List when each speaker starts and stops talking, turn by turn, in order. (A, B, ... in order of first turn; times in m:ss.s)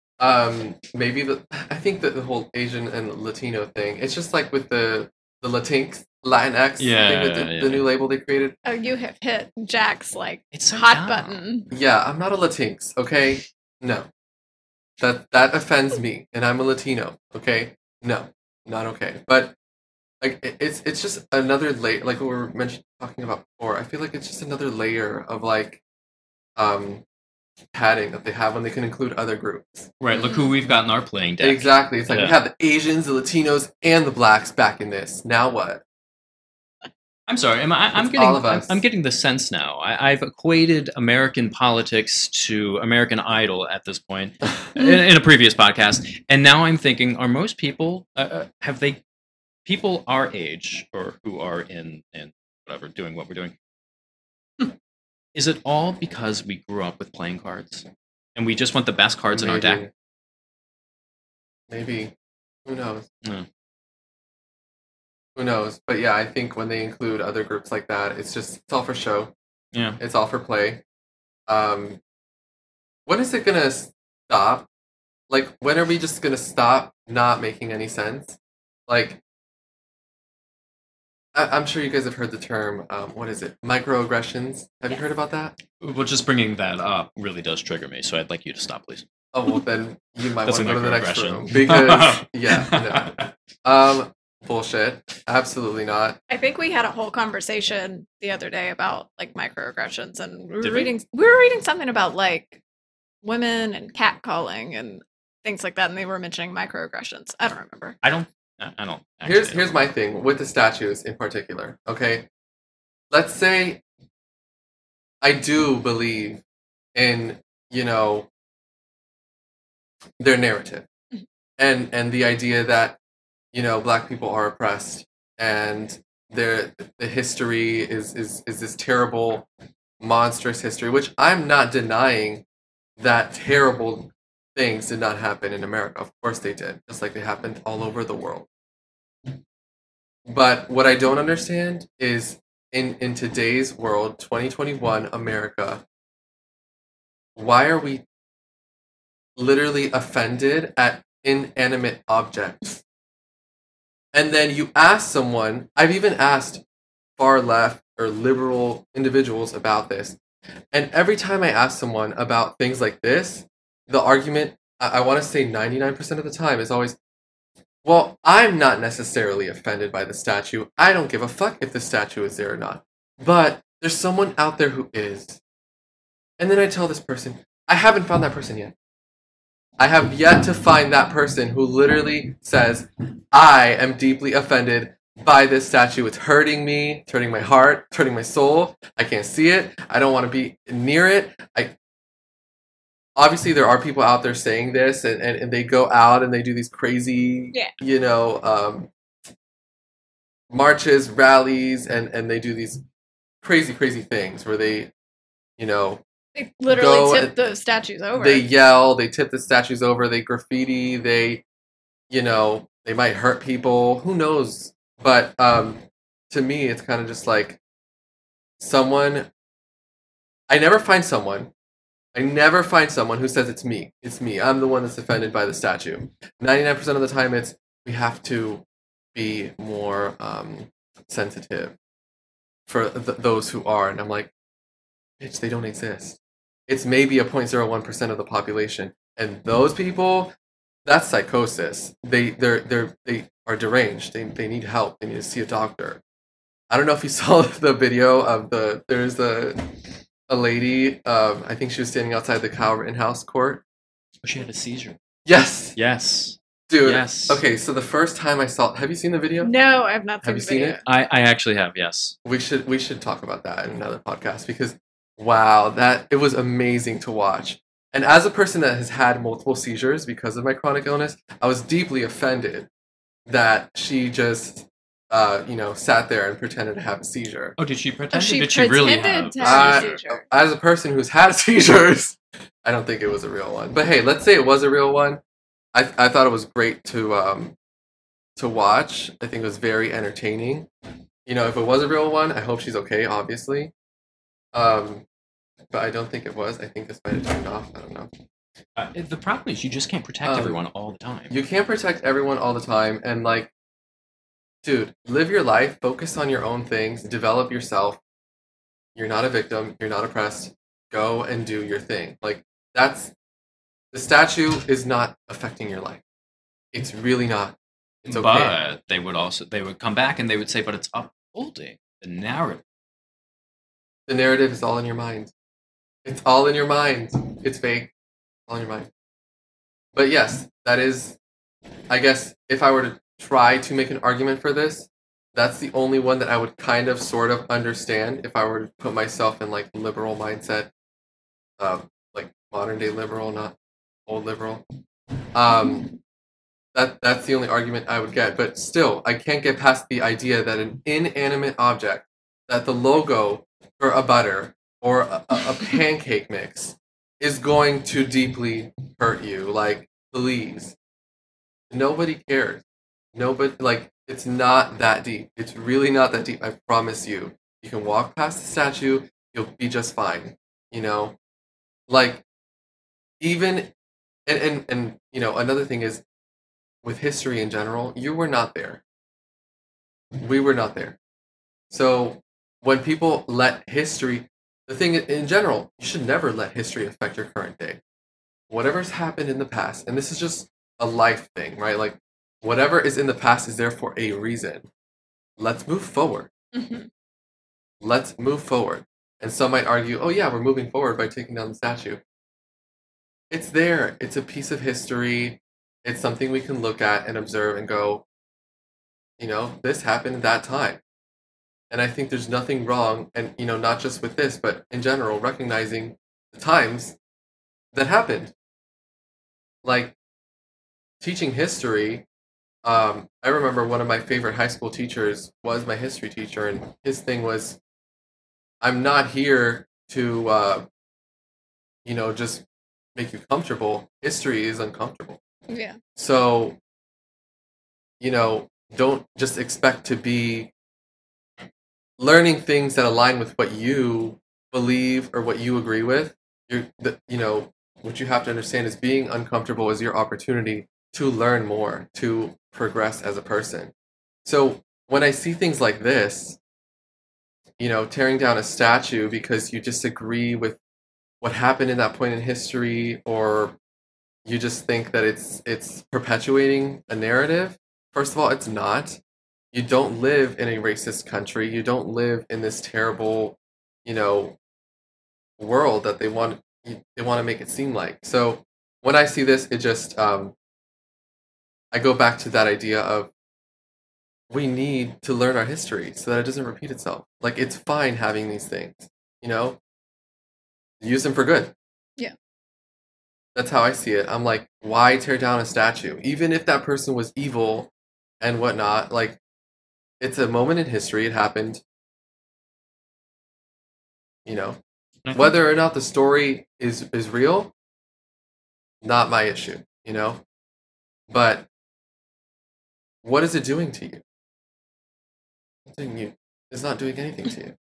0:00.2-0:08.6 A
0:06.8-0:07.9 B
0:08.6-0:11.7 C
0:10.5-0:11.4 B
0:11.7-0:14.1 A
0:15.0-0:19.5 A
0:20.2-0:25.8 A
0:26.6-0:27.0 A
0:27.7-0:30.3 A
0:30.0-0:32.4 B
0:31.4-0:35.8 A
0:37.3-0:49.0 B
0:38.0-0:38.8 A
0:49.6-0:53.5 B
0:55.4-0:57.8 B
0:58.4-0:59.8 B
0:59.3-0:59.9 A
1:01.7-1:02.1 A
1:02.6-1:03.1 A
1:05.4-1:09.3 A
1:09.7-1:10.0 B
1:10.0-1:10.8 A
1:11.5-1:12.0 A
1:13.1-1:14.7 A
1:15.3-1:19.2 A
1:21.3-1:25.6 A
1:25.8-1:29.0 B
1:29.3-1:36.2 A
1:30.4-1:33.3 B
1:36.3-1:42.6 C
1:40.6-1:40.9 B
1:43.2-1:48.0 C
1:48.0-1:49.8 B
1:49.2-1:52.3 A
1:53.1-1:53.8 A
1:55.2-1:56.4 A
1:57.0-1:58.3 A
2:00.2-2:00.9 A
2:01.6-2:03.0 A
2:03.5-2:09.5 A
2:10.0-2:12.4 A
2:13.0-2:18.5 A
2:20.2-2:25.8 A
2:27.4-2:28.0 A
2:29.4-2:32.8 A
2:34.1-2:36.6 A
2:37.2-2:40.2 A
2:40.7-2:47.0 A
2:47.8-2:55.4 A
2:56.4-2:58.7 A
2:59.8-3:11.7 A
3:13.2-3:18.9 A
3:20.5-3:22.8 A
3:23.4-3:24.9 A
3:25.6-3:26.0 A
3:26.4-3:28.4 C
3:26.7-3:27.4 A
3:28.2-3:31.4 A
3:32.1-3:37.6 A
3:38.6-3:39.3 A
3:40.5-3:41.5 A
3:42.1-3:48.6 A
3:49.2-3:51.8 A
3:52.7-3:54.3 A
3:55.2-4:00.3 A
4:00.8-4:06.0 A
4:06.7-4:13.6 A
4:14.2-4:15.0 B
4:15.3-4:15.8 A
4:15.8-4:17.4 B
4:16.7-4:19.5 A
4:19.4-4:20.8 C
4:20.2-4:20.8 A
4:20.8-4:22.2 B
4:22.2-4:32.7 A
4:33.3-4:37.6 A
4:37.6-4:39.9 B
4:38.1-4:40.2 C
4:39.4-4:45.2 A
4:45.7-4:47.6 A
4:48.4-4:50.7 A
4:51.3-4:53.7 A
4:54.5-4:55.0 A
4:55.7-4:58.1 A
4:58.8-5:01.4 B
5:00.2-5:00.6 A
5:01.3-5:03.5 A
5:04.6-5:08.0 A
5:09.0-5:13.1 A
5:13.9-5:16.0 A
5:16.7-5:18.5 A
5:18.1-5:22.6 B
5:24.1-5:25.3 A
5:26.0-5:27.9 A
5:28.5-5:28.9 A
5:30.0-5:31.2 A
5:31.9-5:40.7 A
5:41.6-5:43.6 A
5:44.1-5:44.6 A
5:45.3-5:46.0 A
5:46.7-6:00.8 A
6:01.7-6:11.2 A
6:11.9-6:12.2 A
6:13.2-6:13.7 A
6:14.3-6:16.0 A
6:16.8-6:18.8 A
6:20.2-6:21.0 A
6:21.7-6:27.8 A
6:28.5-6:34.7 A
6:35.4-6:36.3 A
6:36.5-6:36.9 C
6:37.8-6:42.0 A
6:43.3-6:48.0 A
6:49.2-6:50.8 A
6:51.7-6:57.0 A
6:57.7-6:58.3 A
6:59.6-7:00.0 A
7:01.0-7:02.0 A
7:02.6-7:07.6 A
7:08.6-7:10.7 A
7:11.8-7:15.2 A
7:15.5-7:15.8 C
7:16.0-7:16.6 A
7:18.0-7:20.5 A
7:22.0-7:33.7 A
7:34.2-7:36.4 A
7:37.6-7:40.6 A
7:41.2-7:43.6 A
7:44.2-7:49.0 A
7:49.5-7:54.4 A
7:55.4-8:00.4 A
8:01.7-8:03.1 A
8:04.3-8:09.6 A
8:10.8-8:11.5 A
8:13.4-8:19.2 A
8:20.0-8:21.6 A
8:24.2-8:24.6 A
8:25.0-8:25.3 B
8:25.1-8:27.5 A
8:28.8-8:30.2 A
8:31.1-8:31.5 A
8:33.0-8:34.0 A
8:35.7-8:37.6 A